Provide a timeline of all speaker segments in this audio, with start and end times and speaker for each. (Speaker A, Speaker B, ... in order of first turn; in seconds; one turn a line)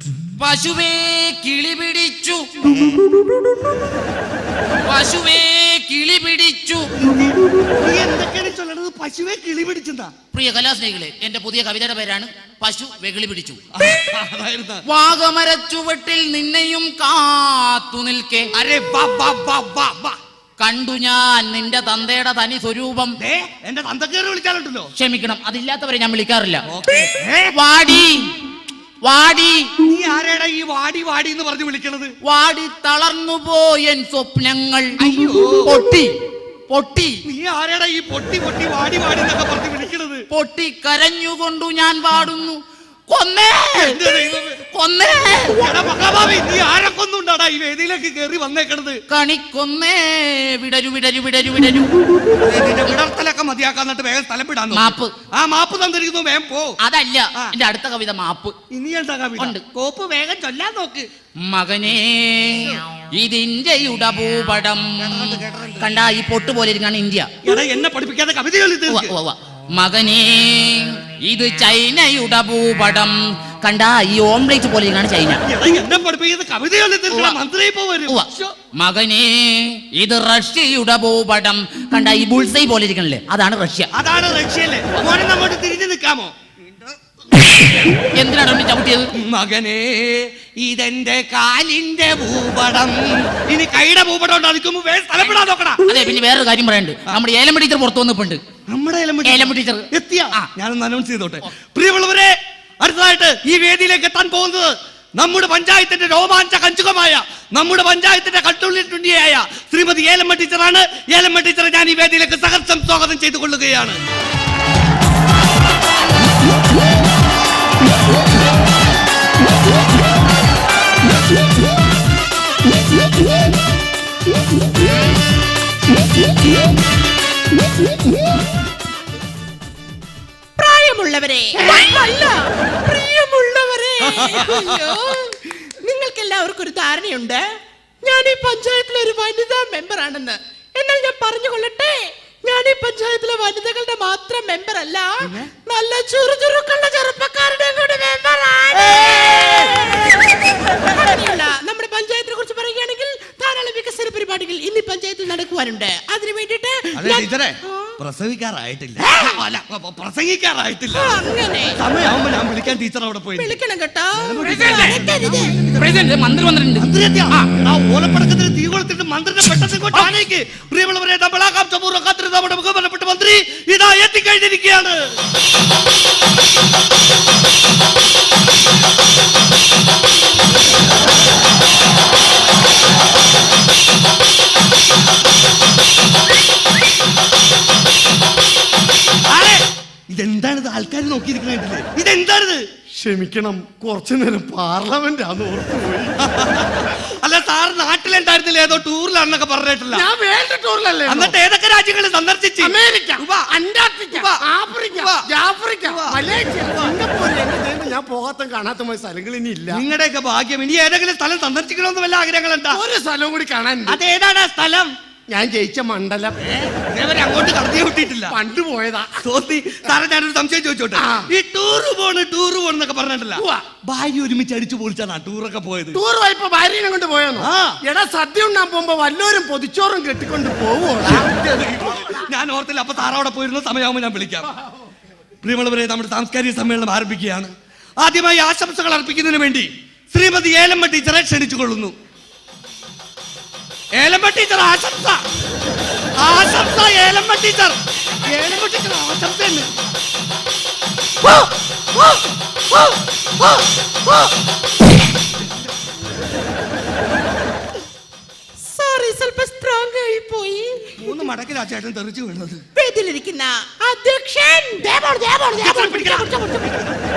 Speaker A: 0.4-2.9
Speaker A: 4.8-6.9
Speaker B: 7.0-10.1
Speaker A: 10.3-13.6
Speaker B: 13.7-14.8
Speaker A: 14.9-18.5
Speaker B: 18.5-20.2
Speaker A: 20.6-23.2
Speaker B: 23.2-24.9
Speaker A: 24.9-26.6
Speaker B: 26.7-27.5
Speaker A: 27.5-28.3
Speaker A: 29.0-29.7
Speaker B: 29.8-32.1
Speaker A: 32.2-36.1
Speaker B: 35.0-35.7
Speaker A: 36.7-37.2
Speaker B: 37.2-40.2
Speaker A: 40.3-44.0
Speaker B: 43.8-44.6
Speaker A: 44.7-45.6
Speaker B: 45.6-49.0
Speaker A: 49.1-51.9
Speaker B: 52.4-56.7
Speaker A: 54.7-55.1
Speaker A: 56.8-58.5
Speaker B: 58.7-61.1
Speaker A: 59.4-59.6
Speaker A: 61.5-67.4
Speaker B: 65.0-65.9
Speaker B: 67.4-69.1
Speaker A: 68.9-75.4
Speaker B: 75.5-78.5
Speaker A: 78.1-83.9
Speaker B: 83.9-86.3
Speaker A: 88.0-89.1
Speaker B: 89.2-95.8
Speaker A: 95.8-98.4
Speaker B: 98.7-114.0
Speaker A: 99.3-100.5
Speaker C: 130.6-137.4
Speaker B: 134.0-135.0
Speaker C: 138.0-157.9
Speaker B: 145.2-145.5
Speaker B: 148.7-150.6
Speaker B: 156.9-161.2
Speaker C: 159.0-159.4
Speaker C: 160.9-161.8
Speaker B: 161.8-163.6
Speaker C: 163.4-165.7
Speaker B: 164.2-165.8
Speaker A: 164.7-164.9
Speaker A: 165.7-167.5
Speaker B: 166.8-175.2
Speaker B: 189.3-192.6
Speaker D: 192.9-196.2
Speaker B: 196.2-200.1
Speaker D: 199.9-201.4
Speaker B: 201.1-203.5
Speaker D: 202.6-209.8
Speaker B: 204.1-205.3
Speaker B: 205.8-207.0
Speaker B: 209.7-212.8
Speaker D: 212.7-214.0
Speaker B: 213.9-214.9
Speaker D: 215.3-216.4
Speaker B: 216.4-218.3
Speaker D: 218.3-219.3
Speaker B: 219.2-226.0
Speaker D: 220.9-221.3
Speaker D: 223.4-223.6
Speaker D: 225.9-231.6
Speaker B: 227.4-227.8
Speaker B: 231.0-234.5
Speaker B: 235.4-241.9
Speaker B: 243.9-245.2
Speaker B: 246.2-249.7
Speaker C: 258.7-261.2
Speaker B: 261.0-262.6
Speaker C: 262.8-266.8
Speaker B: 265.5-267.0